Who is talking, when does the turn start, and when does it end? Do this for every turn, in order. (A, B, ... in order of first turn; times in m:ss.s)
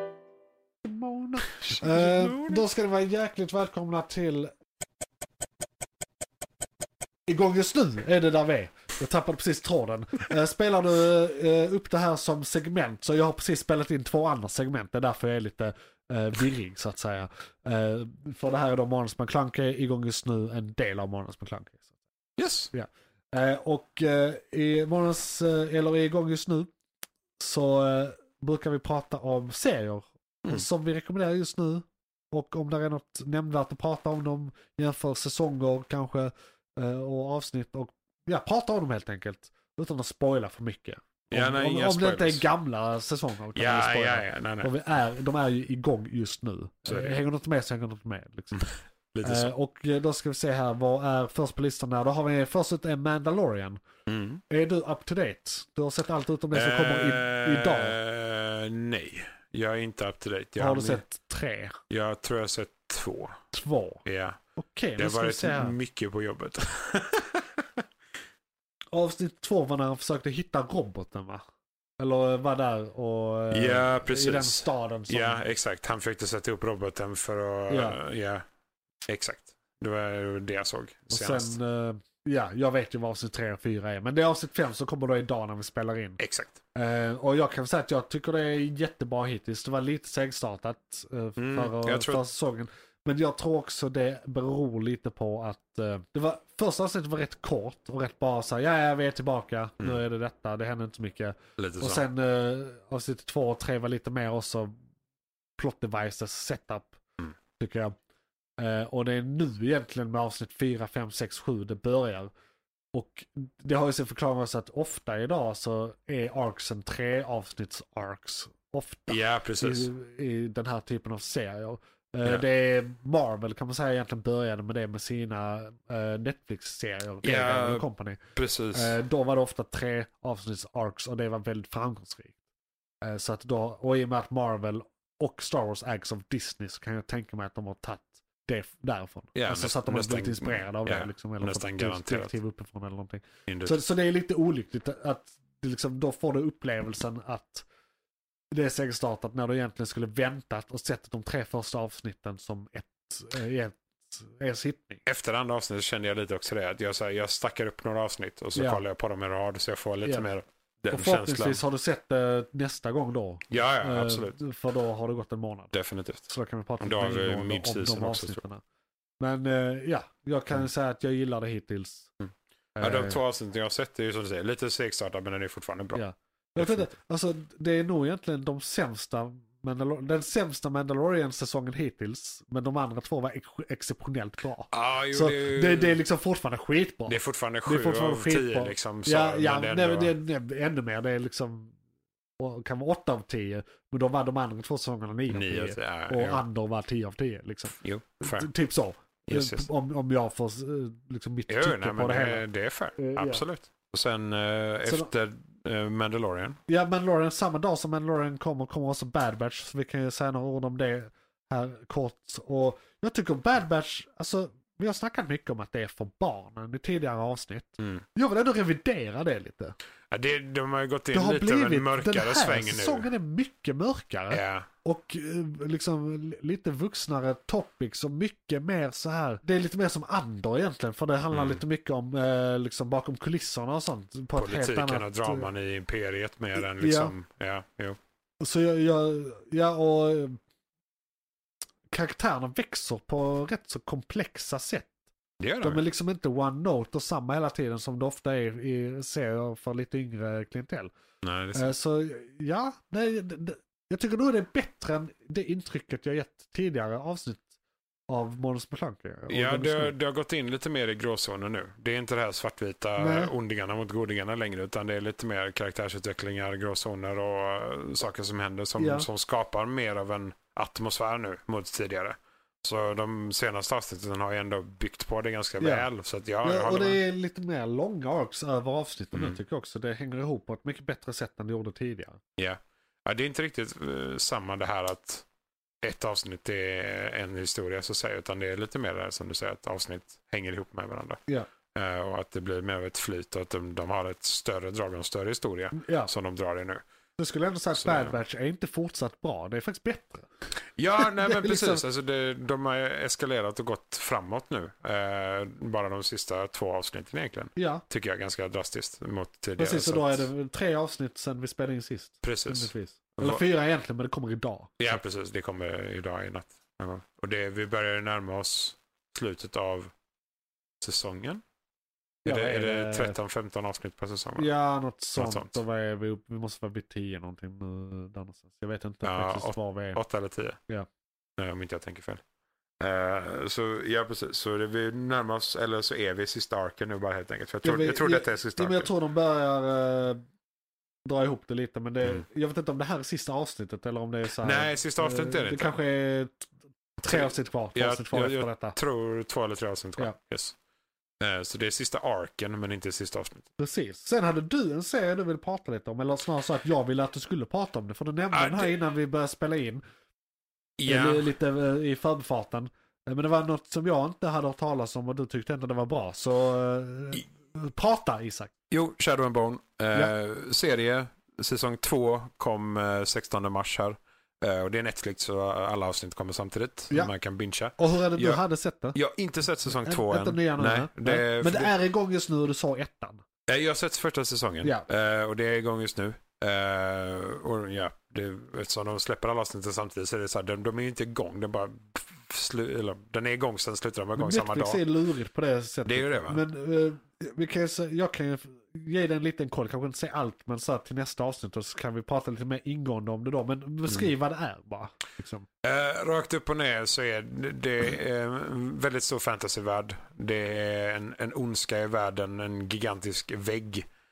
0:00.8-0:04.5 A
0:01.4-0:02.7 B
0:07.3-0:21.8 A
0:22.4-0:22.7 B
0:22.7-0:26.7 A
0:27.4-0:48.7 A
0:41.3-0:42.5 B
0:43.6-0:44.7 B
0:46.9-0:47.2 B
0:48.5-0:49.5 B
0:49.2-0:53.8 A
0:54.1-0:54.4 B
0:54.5-0:58.0 A
0:56.5-1:01.0 B
1:00.6-1:01.8 A
1:01.9-1:03.4 B
1:03.5-1:04.0 A
1:04.0-1:04.4 B
1:04.6-1:05.8 A
1:05.0-1:07.4 B
1:08.9-1:11.4 A
1:12.0-1:15.4 A
1:13.5-1:18.4 B
1:17.7-1:18.0 A
1:19.1-1:21.6 B
1:21.1-1:26.2 A
1:26.2-1:26.6 B
1:26.8-1:44.7 A
1:31.4-1:32.2 B
1:41.6-1:42.0 B
1:45.6-1:47.0 A
1:47.6-1:47.9 A
1:48.6-1:52.3 A
1:52.9-2:08.2 A
1:59.1-1:59.9 B
2:07.2-2:09.0 B
2:08.7-2:12.4 A
2:13.0-2:27.7 A
2:19.4-2:22.4 B
2:23.5-2:23.8 B
2:28.5-2:35.0 A
2:35.1-2:41.6 B
2:38.6-2:38.8 A
2:40.0-2:40.3 A
2:40.9-2:45.7 A
2:43.5-2:44.4 B
2:45.7-2:48.4 B
2:46.3-2:48.6 A
2:49.2-2:52.1 A
2:52.2-2:56.0 B
2:52.8-2:53.2 A
2:56.0-3:11.8 A
2:56.6-2:56.9 B
3:04.7-3:06.0 B
3:07.1-3:10.2 B
3:12.4-3:22.5 A
3:15.3-3:16.4 B
3:17.8-3:18.5 B
3:19.3-3:19.7 B
3:21.5-3:26.6 B
3:23.0-3:23.5 A
3:24.9-3:25.1 A
3:26.7-3:39.8 A
3:40.1-3:43.1 B
3:41.1-3:55.5 A
3:44.3-3:44.7 B
3:51.3-3:51.6 B
3:54.4-3:58.0 B
3:56.6-3:57.2 A
3:58.4-4:00.4 A
4:01.9-4:04.9 A
4:05.4-4:05.8 B
4:05.6-4:10.9 A
4:11.2-4:11.8 B
4:11.6-4:17.5 A
4:18.1-4:20.0 A
4:19.3-4:37.0 B
4:23.0-4:23.3 A
4:28.8-4:29.1 A
4:35.6-4:35.9 A
4:36.4-4:42.2 A
4:39.1-4:39.4 B
4:42.4-4:45.3 B
4:45.8-4:51.2 B
4:51.8-4:56.8 B
4:55.7-4:56.1 A
4:57.2-5:00.3 A
4:57.8-4:58.2 B
5:00.8-5:10.3 B
5:01.0-5:01.8 A
5:07.6-5:07.8 A
5:09.6-5:15.0 A
5:12.2-5:13.4 B
5:14.8-5:19.9 B
5:20.8-5:21.4 B
5:22.2-5:23.2 A
5:22.2-5:24.5 B
5:24.4-5:30.0 A
5:25.2-5:25.6 B
5:29.0-5:30.6 B
5:31.4-5:32.2 B
5:32.8-5:38.9 B
5:37.6-5:40.2 A
5:41.1-5:48.8 A
5:44.4-5:45.8 B
5:47.0-5:50.6 B
5:51.2-5:53.5 B
5:53.6-5:59.8 A
5:58.3-5:58.8 B
6:00.8-6:01.3 B
6:00.9-6:08.5 A
6:08.7-6:18.4 B
6:17.8-6:19.0 A
6:18.9-6:21.7 B
6:19.7-6:23.2 A
6:23.5-6:34.8 B
6:34.2-6:45.5 A
6:35.9-6:36.4 B
6:45.6-6:53.8 B